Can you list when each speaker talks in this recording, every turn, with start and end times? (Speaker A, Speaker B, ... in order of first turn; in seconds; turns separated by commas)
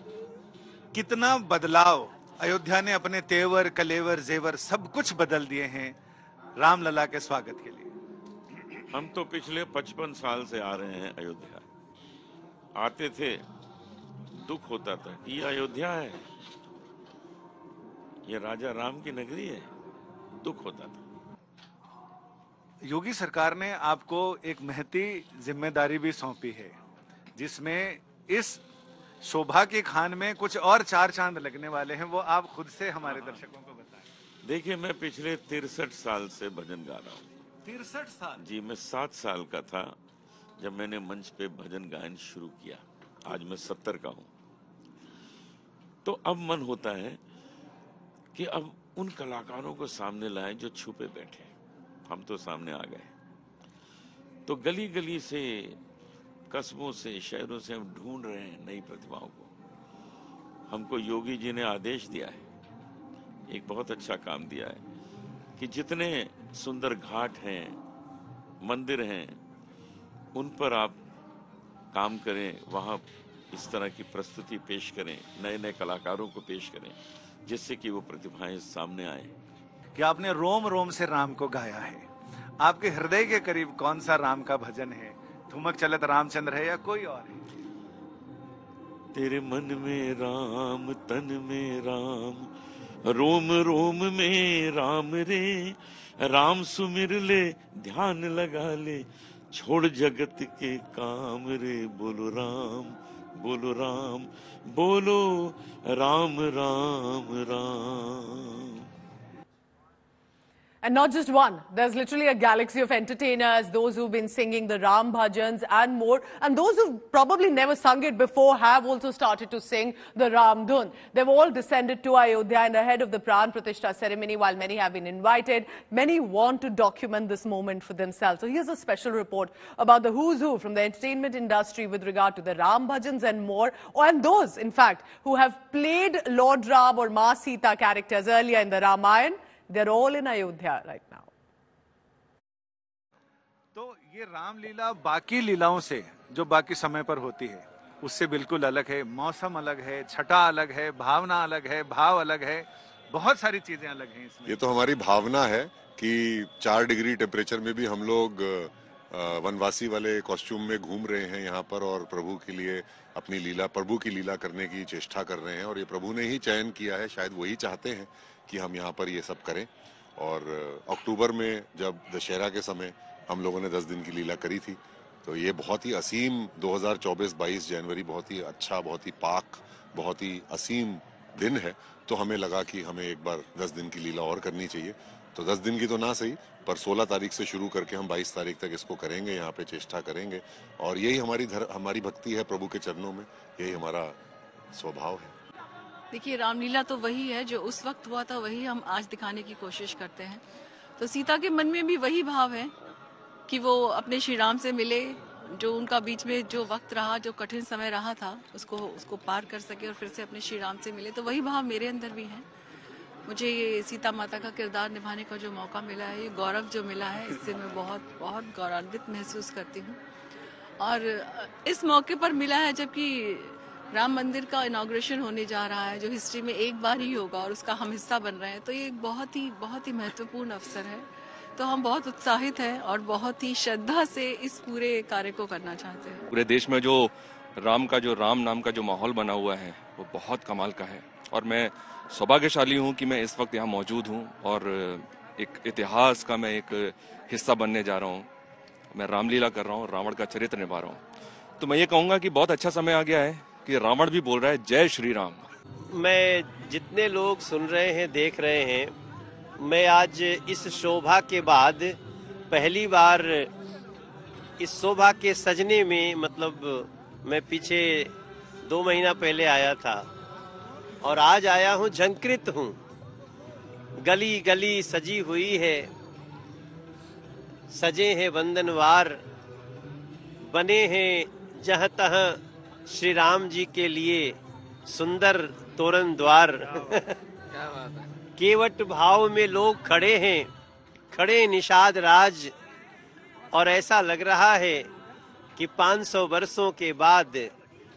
Speaker A: 0.9-6.0, Speaker A: 6.6-7.9, Speaker B: 8.9-11.6, Speaker B: 12.8-13.4, Speaker B: 14.4-16.2, Speaker B: 18.3-19.7, Speaker B: 20.4-21.0, Speaker A: 22.8-26.7, Speaker A: 27.3-28.6, Speaker A: 29.2-34.0, Speaker B: 34.4-37.3, Speaker A: 37.6-38.4, Speaker B: 38.4-40.0, Speaker B: 40.6-44.3, Speaker B: 46.0-47.2, Speaker B: 48.3-51.5, Speaker B: 52.0-53.1, Speaker B: 54.5-55.8, Speaker B: 56.5-59.5, Speaker B: 60.7-62.4, Speaker B: 63.5-64.8, Speaker B: 65.6-67.8, Speaker B: 68.6-69.4, Speaker B: 70.3-71.0, Speaker B: 71.9-79.3, Speaker A: 80.0-82.0, Speaker A: 82.6-87.4, Speaker B: 89.1-92.5, Speaker B: 93.0-108.8, Speaker C: 110.8-141.3, Speaker A: 143.7-154.6, Speaker D: 154.5-194.2, Speaker D: 194.7-195.3, Speaker E: 196.1-200.4, Speaker E: 201.0-202.7, Speaker E: 203.5-212.4, Speaker E: 213.3-220.0, Speaker E: 220.8-231.0, Speaker E: 231.6-236.2, Speaker F: 236.3-248.3, Speaker F: 248.9-251.0, Speaker F: 251.6-255.5, Speaker G: 255.9-258.9, Speaker G: 259.6-262.0, Speaker G: 262.5-263.5, Speaker G: 264.6-270.1, Speaker G: 271.0-272.8, Speaker G: 274.0-275.9, Speaker G: 277.7-279.2, Speaker G: 280.4-287.2, Speaker G: 288.4-290.5, Speaker G: 291.1-292.5, Speaker G: 293.5-294.9, Speaker G: 295.6-297.5